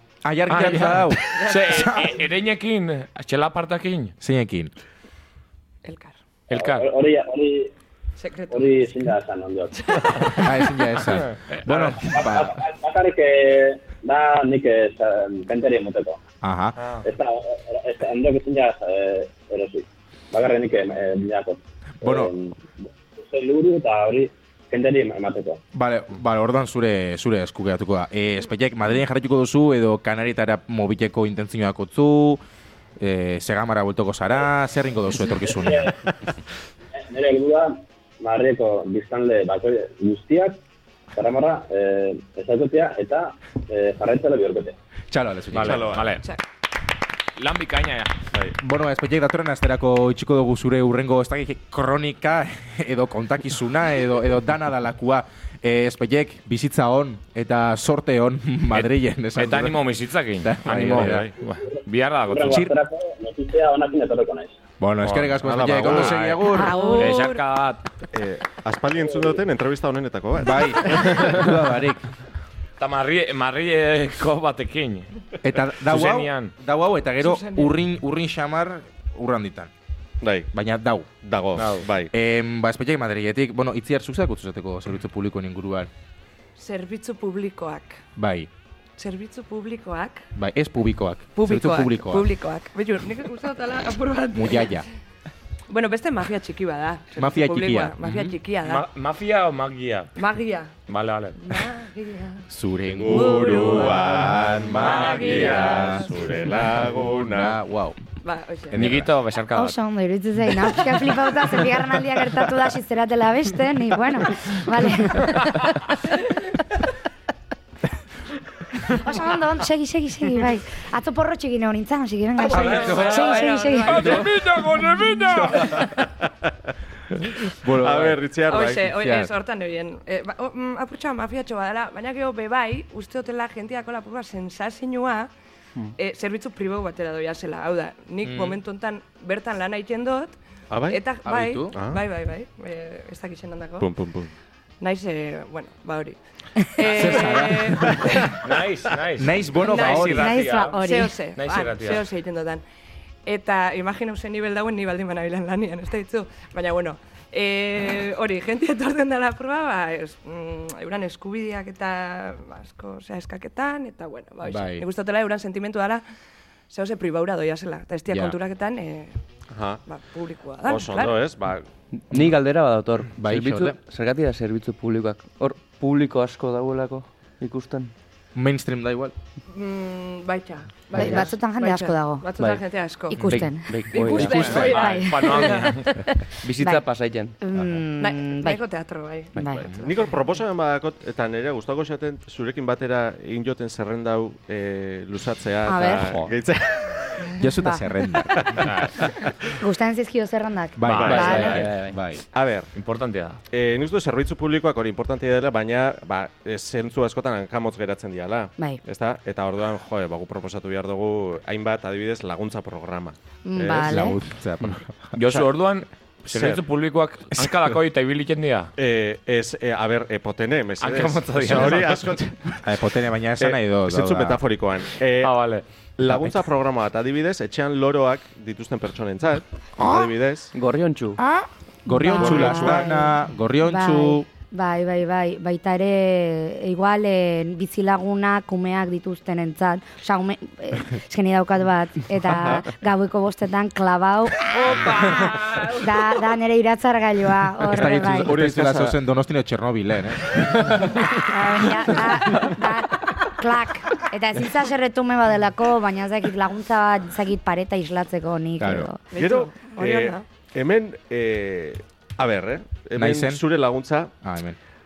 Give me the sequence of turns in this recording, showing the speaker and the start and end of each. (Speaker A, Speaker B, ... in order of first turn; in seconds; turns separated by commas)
Speaker A: 0.2-2.2, Speaker B: 0.5-4.1, Speaker C: 1.3-2.1, Speaker A: 4.2-4.7, Speaker C: 5.8-6.2, Speaker B: 6.5-6.9, Speaker D: 6.5-7.7, Speaker C: 8.2-8.7, Speaker D: 8.5-10.3, Speaker C: 9.8-10.7, Speaker A: 10.4-12.6, Speaker B: 11.0-12.1, Speaker D: 12.0-16.2, Speaker A: 16.4-16.8, Speaker B: 16.8-17.0, Speaker D: 17.0-22.6, Speaker A: 22.0-22.3, Speaker D: 23.2-25.6, Speaker A: 25.7-32.4, Speaker A: 33.0-35.9, Speaker D: 35.6-35.9, Speaker D: 37.0-40.6, Speaker D: 41.1-44.7, Speaker A: 45.1-46.0, Speaker B: 45.5-46.2, Speaker E: 45.6-46.1, Speaker B: 47.4-48.1, Speaker A: 48.6-59.8, Speaker B: 58.7-62.7, Speaker A: 60.4-61.2, Speaker E: 60.8-61.3, Speaker D: 62.3-64.6, Speaker A: 64.8-66.8, Speaker B: 65.0-67.8, Speaker E: 65.4-66.2, Speaker C: 66.5-67.4, Speaker F: 66.5-67.2, Speaker E: 68.1-71.5, Speaker A: 70.4-72.1, Speaker B: 72.8-75.1, Speaker A: 75.4-79.7, Speaker B: 75.8-76.5, Speaker C: 77.2-77.8, Speaker E: 80.2-80.5, Speaker A: 80.5-81.1, Speaker E: 81.2-82.1, Speaker B: 81.5-81.9, Speaker A: 82.1-85.9, Speaker C: 86.5-88.0, Speaker A: 88.2-88.5, Speaker C: 89.0-90.2, Speaker A: 90.3-92.3, Speaker C: 91.3-94.8, Speaker A: 94.3-94.9, Speaker C: 95.7-98.8, Speaker A: 97.2-98.0, Speaker B: 98.0-100.1, Speaker C: 100.2-100.7, Speaker B: 100.9-101.5, Speaker C: 101.4-102.5, Speaker A: 102.5-106.0, Speaker E: 103.0-107.5, Speaker C: 103.1-104.2, Speaker C: 104.8-106.1, Speaker B: 104.8-105.5, Speaker A: 106.6-108.0, Speaker C: 108.2-108.8, Speaker A: 108.7-109.1, Speaker B: 108.7-109.8, Speaker F: 109.5-115.4, Speaker F: 118.9-124.2, Speaker C: 122.4-124.3, Speaker A: 124.0-125.7, Speaker B: 124.3-125.3, Speaker E: 125.6-126.2, Speaker E: 127.5-128.9, Speaker A: 127.6-128.2, Speaker C: 128.4-135.3, Speaker A: 128.9-129.3, Speaker C: 136.0-143.9, Speaker A: 138.2-138.6, Speaker E: 140.7-141.0, Speaker A: 141.2-141.7, Speaker E: 141.7-142.0, Speaker E: 143.8-144.3, Speaker C: 144.8-148.4, Speaker A: 146.9-148.0, Speaker B: 148.4-150.8, Speaker A: 149.2-150.3, Speaker C: 149.6-152.6, Speaker F: 150.1-151.1, Speaker B: 151.4-152.1, Speaker C: 153.2-166.0, Speaker A: 164.4-164.8, Speaker C: 166.7-169.2, Speaker A: 168.1-168.3, Speaker E: 169.5-169.8, Speaker C: 169.8-171.2, Speaker E: 170.6-171.7, Speaker G: 171.9-177.9, Speaker A: 173.2-173.8, Speaker A: 178.3-179.1, Speaker C: 179.5-183.2, Speaker F: 180.9-182.2, Speaker G: 181.0-181.2, Speaker F: 183.1-183.7, Speaker G: 183.3-184.6, Speaker C: 183.9-185.8, Speaker A: 184.0-184.8, Speaker F: 184.4-185.7, Speaker B: 184.4-185.9, Speaker G: 186.4-187.3, Speaker F: 186.6-186.8, Speaker F: 187.4-188.6, Speaker C: 188.0-190.1, Speaker F: 189.3-189.6, Speaker E: 189.8-197.3, Speaker F: 195.6-196.2, Speaker A: 196.0-196.3, Speaker A: 197.4-198.7, Speaker E: 198.4-198.7, Speaker B: 198.6-198.9, Speaker F: 199.6-201.6, Speaker A: 200.8-202.2, Speaker B: 200.8-201.7, Speaker E: 200.9-201.7, Speaker G: 201.0-202.0, Speaker E: 202.3-202.7, Speaker B: 202.7-203.4, Speaker E: 203.5-214.0, Speaker F: 213.4-214.2, Speaker A: 213.7-214.9, Speaker B: 215.1-218.7, Speaker E: 216.3-216.6, Speaker A: 217.3-217.8, Speaker E: 218.8-222.6, Speaker B: 220.8-222.1, Speaker A: 221.4-224.4, Speaker E: 223.4-225.3, Speaker B: 225.2-225.6, Speaker E: 226.0-230.5, Speaker A: 226.0-226.4, Speaker F: 229.8-230.1, Speaker G: 230.5-231.2, Speaker F: 231.2-233.1, Speaker A: 231.8-234.2, Speaker E: 232.2-232.9, Speaker F: 233.6-248.3, Speaker C: 244.5-246.2, Speaker A: 247.7-250.8, Speaker E: 248.1-248.9, Speaker F: 251.0-259.0, Speaker A: 258.6-258.9, Speaker C: 259.1-260.2, Speaker E: 259.1-264.1, Speaker A: 262.9-263.4, Speaker A: 264.2-264.6